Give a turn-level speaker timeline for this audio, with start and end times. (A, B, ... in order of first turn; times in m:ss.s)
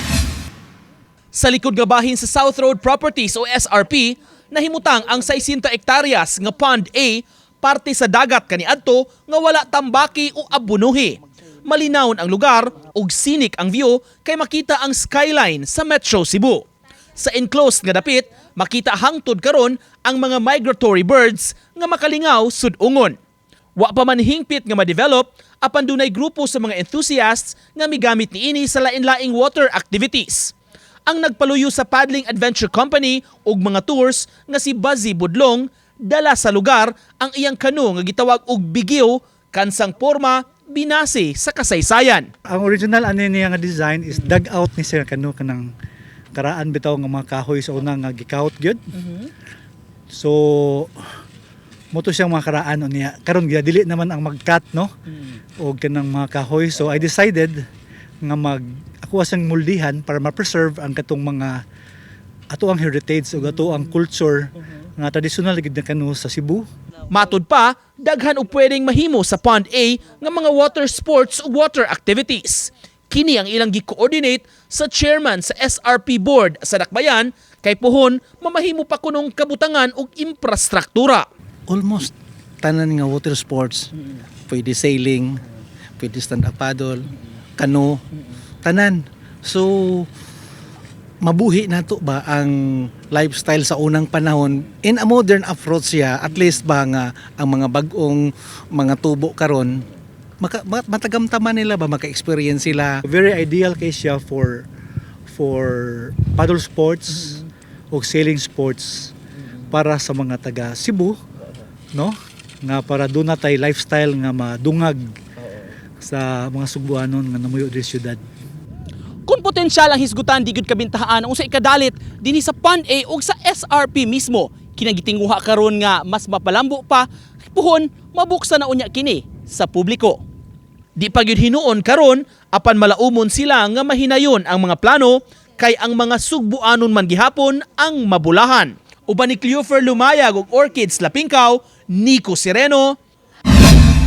0:01.3-0:23.2 A
0:23.8-0:30.5 A
0:31.1-0:42.3 A
0:42.5-0:45.7 B
0:46.3-0:48.8 B
0:49.0-0:49.3 A
0:50.1-0:50.9 B
0:51.9-0:54.9 B
0:55.6-0:57.6 B
0:58.2-1:01.6 B
1:02.5-1:06.6 B
1:07.1-1:21.2 A
1:21.7-1:22.1 C
1:22.6-1:23.9 C
1:24.5-1:25.4 C
1:26.0-1:27.0 C
1:27.6-1:28.0 C
1:28.6-1:30.1 C
1:31.2-1:39.8 C
1:40.4-1:43.0 C
1:43.1-1:44.6 B
1:45.3-1:49.1 B
1:49.7-1:51.2 B
1:51.9-1:55.1 B
1:56.0-1:58.2 B
1:59.3-2:10.2 A
2:11.0-2:23.0 A